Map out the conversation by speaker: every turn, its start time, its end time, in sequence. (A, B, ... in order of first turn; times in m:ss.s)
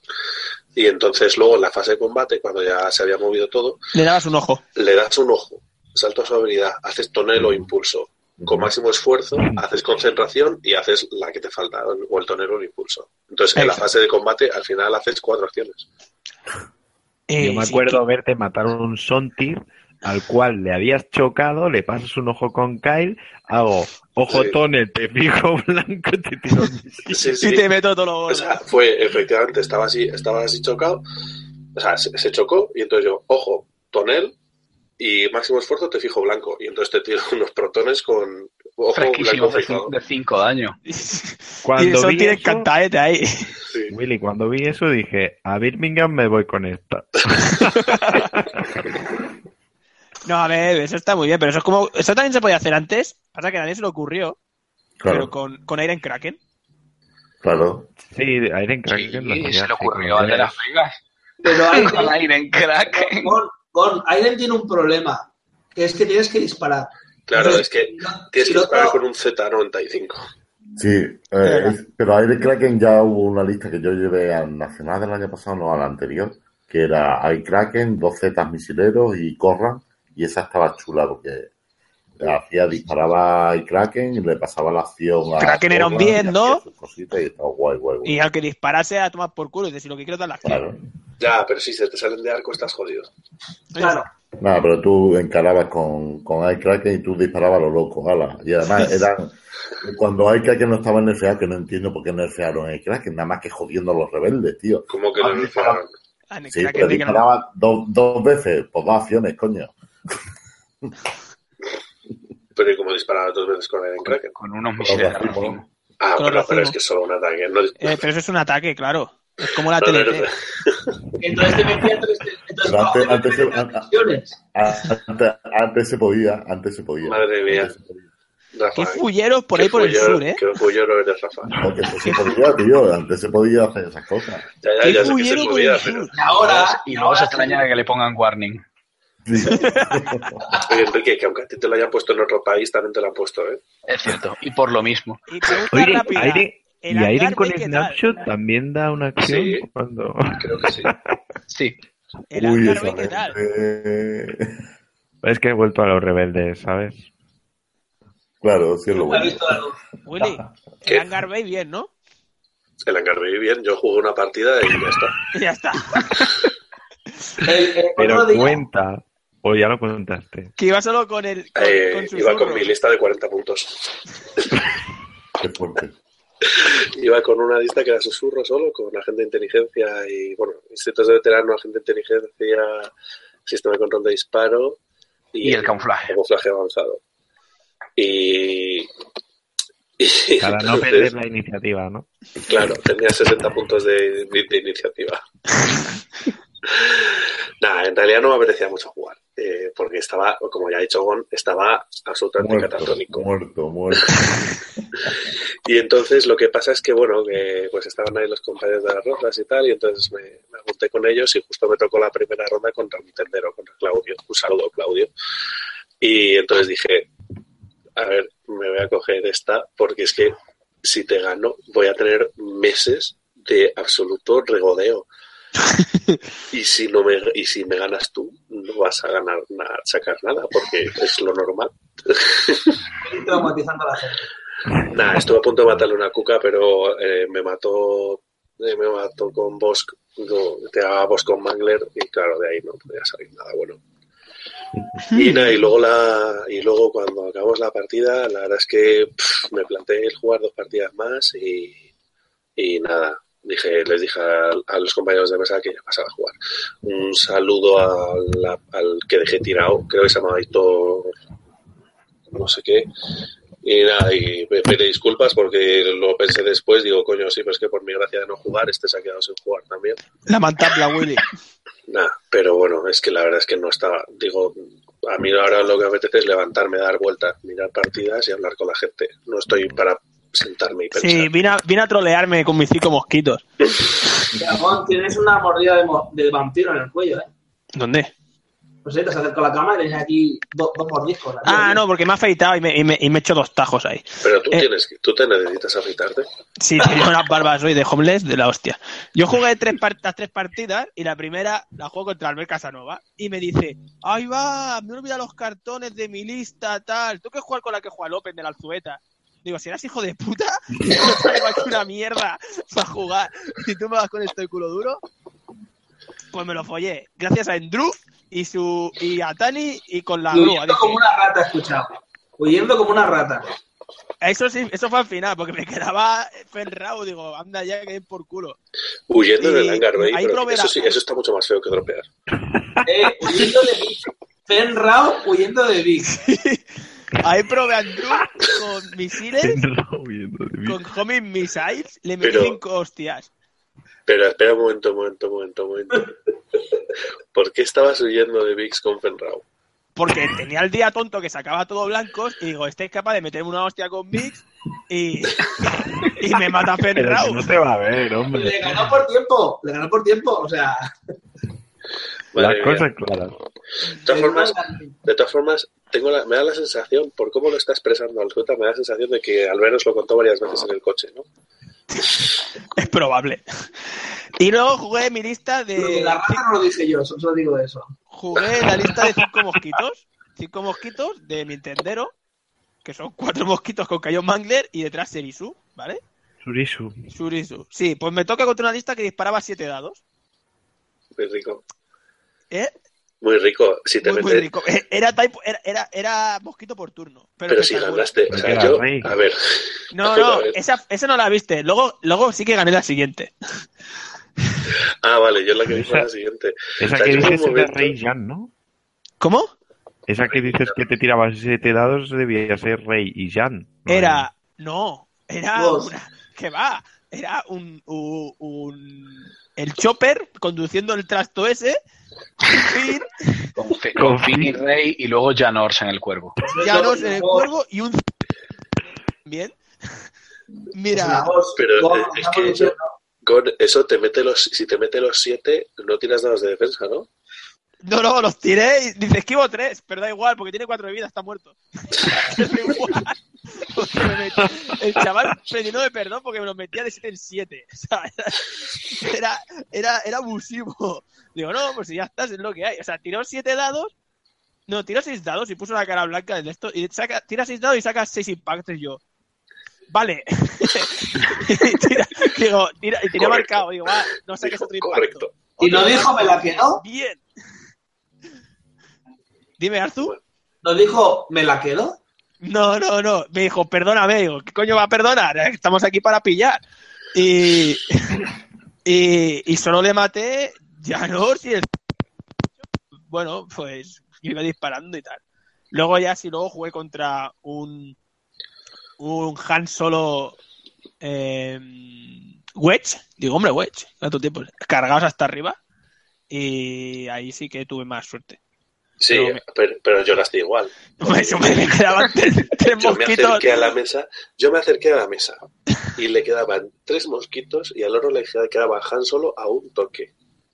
0:00.8-0:03.8 A
0:03.9-0:04.6 B
0:04.8-0:15.9 A
0:07.4-0:07.6 C
0:08.4-0:08.7 C
0:13.6-0:13.8 B
0:17.3-0:18.0 B
0:17.4-0:27.2 D
0:24.3-0:24.6 A
0:27.1-0:27.7 A
0:27.4-0:28.6 B
0:28.3-0:31.0 A
0:31.8-0:34.4 A
0:35.0-0:39.9 A
0:38.9-0:40.8 E
0:40.9-0:43.5 B
0:41.6-0:42.7 D
0:43.9-0:48.7 D
0:47.7-0:48.2 B
0:50.3-0:54.4 B
0:55.0-0:55.3 C
0:55.1-0:56.4 B
0:57.4-0:57.9 C
0:58.0-1:00.6 D
0:58.9-1:03.4 E
1:01.4-1:02.2 F
1:02.8-1:09.0 F
1:07.3-1:10.2 A
1:10.8-1:21.5 C
1:11.4-1:11.8 B
1:22.2-1:28.2 C
1:25.4-1:26.6 B
1:28.0-1:30.6 B
1:30.4-1:30.8 C
1:31.2-1:33.1 A
1:33.7-1:34.0 B
1:33.8-1:34.1 F
1:34.4-1:45.8 C
1:44.9-1:45.9 A
1:46.3-1:47.2 B
1:46.5-1:49.7 C
1:52.6-1:54.3 A
1:54.4-1:55.6 E
1:54.8-1:55.6 C
1:56.0-1:58.0 A
1:56.2-1:56.8 B
1:57.8-2:00.3 B
1:59.8-2:00.9 A
2:01.2-2:04.4 F
2:02.6-2:04.0 C
2:04.5-2:08.0 C
2:07.0-2:07.7 A
2:08.5-2:09.0 A
2:08.8-2:10.4 B
2:09.6-2:11.5 A
2:11.6-2:14.5 C
2:14.6-2:16.2 A
2:14.8-2:16.1 B
2:16.1-2:17.7 F
2:16.2-2:18.6 E
2:19.2-2:20.4 C
2:19.4-2:20.2 B
2:20.6-2:23.6 A
2:23.9-2:25.2 E
2:25.3-2:28.0 B
2:25.7-2:31.2 D
2:29.2-2:29.7 A
2:30.4-2:30.9 A
2:31.5-2:31.8 E
2:32.3-2:33.4 B
2:32.3-2:34.5 C
2:35.2-2:37.1 D
2:38.4-2:39.7 C
2:39.0-2:39.8 F
2:40.0-2:41.9 B
2:40.2-2:40.5 C
2:42.8-2:45.2 A
2:45.3-2:46.0 B
2:47.4-2:48.6 F
2:48.0-2:50.5 D
2:50.6-2:52.7 B
2:51.6-2:53.9 A
2:55.4-2:56.0 C
2:56.5-3:02.9 A
3:03.5-3:04.8 A
3:05.3-3:07.0 A
3:05.4-3:06.1 E
3:08.0-3:08.9 A
3:10.0-3:11.1 A
3:10.4-3:12.1 D
3:12.5-3:15.2 A
3:16.7-3:23.3 A
3:22.4-3:24.5 C
3:25.6-3:35.1 A
3:36.0-3:37.1 A
3:38.0-3:45.1 A
3:45.8-3:46.2 B
3:46.5-3:52.8 A
3:53.0-3:54.2 F
3:54.9-4:03.8 A
4:05.1-4:05.4 B
4:05.1-4:11.8 A
4:12.6-4:21.1 A
4:22.3-4:22.9 A
4:23.6-4:30.0 A
4:30.3-4:31.3 B
4:31.9-4:41.3 A
4:40.9-4:43.4 B
4:44.4-4:47.3 F
4:47.8-4:48.1 B
4:48.8-4:51.8 F
4:51.4-4:54.7 B
4:54.2-4:56.3 A
4:56.6-5:15.0 B
5:16.3-5:21.0 B
5:20.3-5:23.5 F
5:24.2-5:28.6 B
5:29.1-5:32.1 A
5:29.4-5:31.0 B
5:32.5-5:32.8 D
5:32.8-5:36.2 F
5:36.0-5:36.6 B
5:37.2-5:39.6 B
5:39.4-5:40.8 D
5:40.6-5:43.3 B
5:42.2-5:42.6 A
5:44.1-5:46.1 A
5:47.3-5:49.4 A
5:50.0-5:55.4 B
5:55.8-5:56.1 D
5:56.2-5:57.5 B
5:56.9-5:59.0 D
5:58.3-6:00.9 F
6:02.3-6:02.8 A
6:02.4-6:03.4 D
6:04.0-6:11.3 A
6:04.0-6:05.0 F
6:12.8-6:13.4 B
6:14.4-6:16.4 B
6:15.8-6:18.0 F
6:18.1-6:22.1 B
6:22.8-6:26.0 B
6:26.4-6:27.0 D
6:27.1-6:30.0 B
6:31.2-6:31.6 A
6:33.2-6:34.5 A
6:34.0-6:38.1 B
6:37.5-6:39.4 A
6:38.3-6:39.1 D
6:39.9-6:43.3 B
6:40.0-6:40.6 A
6:45.0-6:47.9 A
6:45.7-6:46.1 D
6:46.8-6:48.5 D
6:49.2-6:49.5 B
6:50.1-6:54.3 D
6:50.3-6:50.8 A
6:53.9-7:01.8 B
6:55.6-6:55.9 F
7:02.5-7:03.5 B
7:03.6-7:06.4 E
7:04.0-7:04.6 D
7:06.4-7:07.5 F
7:06.6-7:08.0 B
7:09.3-7:09.5 B
7:10.7-7:11.3 B
7:10.9-7:12.9 F
7:11.6-7:17.1 A
7:17.8-7:33.9 B
7:34.7-7:39.0 B
7:39.9-7:47.2 B
7:43.2-7:43.6 A
7:44.4-7:45.3 A
7:45.6-7:46.8 F
7:49.6-7:50.2 B
7:50.6-7:52.0 F
7:52.4-7:56.6 B
7:57.1-7:58.3 B
7:58.8-8:01.7 B
8:03.1-8:05.2 B
8:05.7-8:08.0 B
8:09.0-8:10.4 B
8:11.0-8:15.6 B
8:16.3-8:18.4 B
8:19.0-8:21.8 A
8:19.1-8:19.4 B
8:21.0-8:23.7 B
8:22.8-8:30.1 A